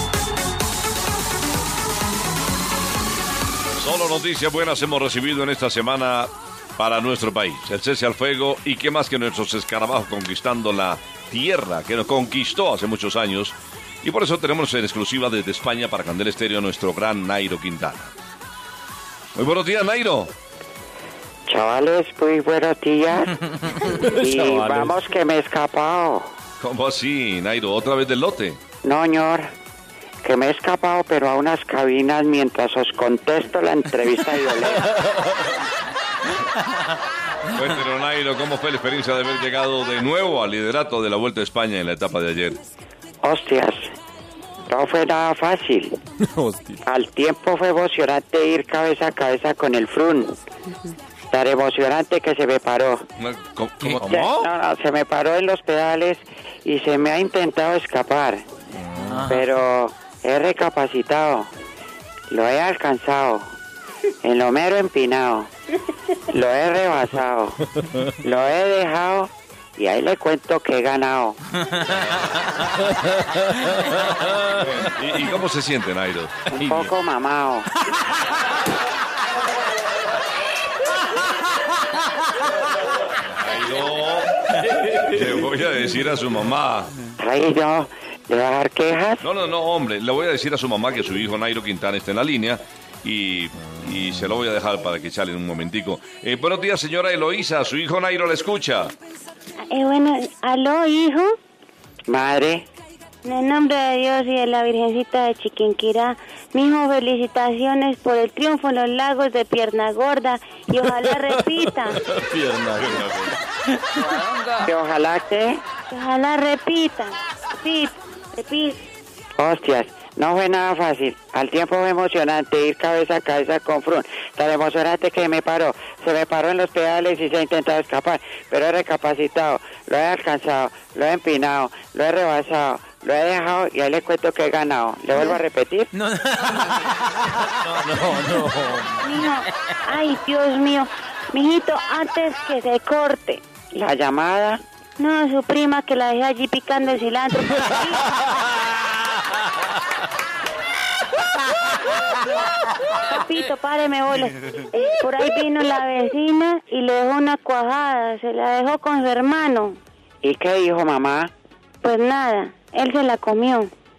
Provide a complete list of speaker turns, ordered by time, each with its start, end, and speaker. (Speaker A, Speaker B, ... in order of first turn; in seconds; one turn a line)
Speaker A: 3.8-18.1
Speaker A: 19.4-20.3
Speaker B: 21.5-23.4
Speaker C: 23.8-24.9
Speaker B: 24.1-26.3
Speaker A: 26.6-28.6
Speaker B: 28.8-29.5
Speaker B: 30.2-35.0
Speaker A: 37.5-42.6
Speaker B: 43.2-43.9
Speaker B: 44.7-46.0
Speaker C: 46.2-46.8
Speaker B: 46.9-50.4
Speaker B: 51.3-53.1
Speaker A: 53.2-54.5
Speaker B: 54.0-58.5
Speaker C: 59.0-59.4
Speaker B: 59.2-61.5
Speaker B: 62.3-63.5
Speaker B: 64.2-65.5
Speaker B: 66.3-67.6
Speaker B: 68.2-71.4
Speaker A: 71.9-72.7
Speaker A: 73.8-76.9
Speaker B: 76.5-77.7
Speaker A: 83.3-86.9
Speaker B: 87.2-89.2
Speaker A: 89.2-98.9
Speaker D: 99.7-101.4
Speaker B: 102.1-102.7
Speaker D: 103.2-112.0
Speaker C: 112.0-113.1
Speaker A: 112.8-113.4
Speaker C: 114.0-114.5
Speaker B: 114.6-115.6
Speaker D: 115.9-118.8
Speaker B: 119.4-135.9
Speaker C: 136.0-139.0
Speaker A: 138.2-138.5
Speaker D: 139.0-143.4
Speaker B: 143.7-144.6
Speaker D: 145.0-148.1
Speaker D: 152.9-159.8
Speaker B: 160.2-161.3
Speaker D: 161.8-163.7